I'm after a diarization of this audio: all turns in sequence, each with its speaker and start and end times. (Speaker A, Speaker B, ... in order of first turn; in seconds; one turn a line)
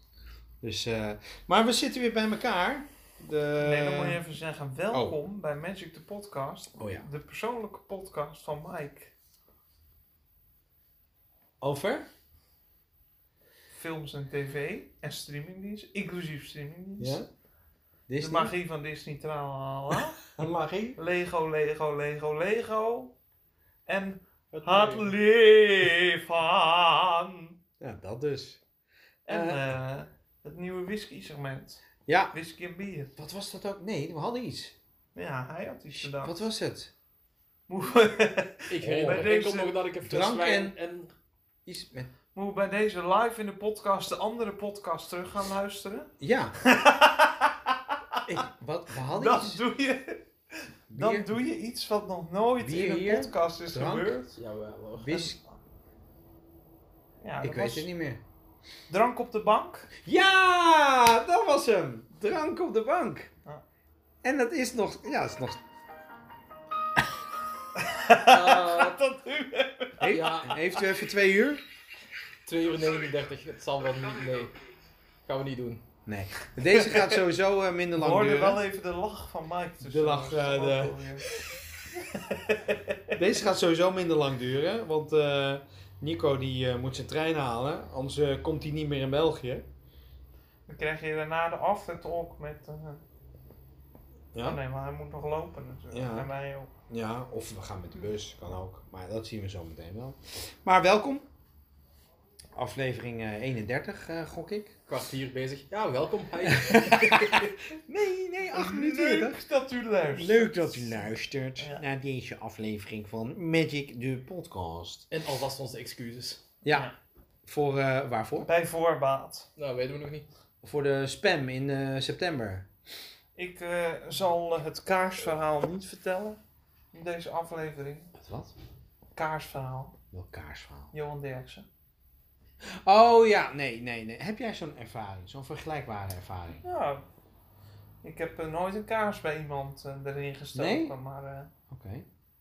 Speaker A: 0.6-4.2
Speaker B: 3.6-9.1
Speaker A: 4.9-5.2
Speaker A: 6.8-7.1
Speaker A: 11.6-12.1
Speaker B: 13.7-17.2
Speaker A: 17.0-17.3
Speaker A: 18.1-18.5
Speaker B: 18.2-20.3
Speaker A: 20.4-21.0
Speaker B: 21.0-23.1
Speaker B: 23.9-27.5
Speaker C: 24.5-25.1
Speaker A: 27.8-28.6
Speaker B: 29.3-33.1
Speaker A: 29.3-29.6
Speaker A: 32.0-32.3
Speaker A: 33.2-34.7
Speaker B: 35.1-36.4
Speaker A: 35.9-36.9
Speaker B: 37.7-39.7
Speaker C: 38.7-41.1
Speaker A: 38.8-39.3
Speaker A: 40.0-40.8
Speaker A: 41.6-42.1
Speaker B: 42.3-48.2
Speaker A: 46.2-46.5
Speaker A: 48.2-49.6
Speaker B: 49.0-50.2
Speaker B: 50.9-54.3
Speaker A: 50.9-51.3
Speaker A: 52.6-54.1
Speaker C: 54.4-55.1
Speaker A: 55.0-55.4
Speaker B: 55.0-55.5
Speaker B: 57.2-57.9
Speaker A: 57.4-58.2
Speaker B: 58.9-59.9
Speaker A: 60.0-63.3
Speaker A: 64.2-65.6
Speaker B: 67.7-70.3
Speaker C: 68.3-69.0
Speaker A: 70.0-71.6
Speaker C: 70.1-70.6
Speaker C: 72.5-74.5
Speaker C: 75.2-75.8
Speaker A: 76.0-78.6
Speaker B: 76.7-77.1
Speaker B: 77.9-81.3
Speaker A: 79.8-81.5
Speaker B: 82.0-83.1
Speaker A: 83.1-89.7
Speaker B: 90.7-93.0
Speaker A: 94.3-94.6
Speaker B: 94.4-96.7
Speaker A: 95.9-96.3
Speaker A: 96.9-101.2
Speaker A: 102.5-104.8
Speaker C: 104.9-107.5
Speaker A: 106.5-109.4
Speaker B: 108.5-111.0
Speaker A: 110.1-115.1
Speaker B: 111.6-111.8
Speaker C: 115.1-116.4
Speaker A: 117.5-118.5
Speaker B: 118.4-119.5
Speaker C: 119.6-120.3
Speaker A: 120.6-122.7
Speaker B: 123.3-126.4
Speaker B: 126.9-128.1
Speaker A: 128.2-128.5
Speaker B: 129.1-129.9
Speaker A: 130.1-130.9
Speaker B: 130.9-131.7
Speaker A: 132.6-136.6
Speaker B: 136.6-137.0
Speaker B: 138.0-141.5
Speaker A: 140.5-140.9
Speaker A: 141.7-142.1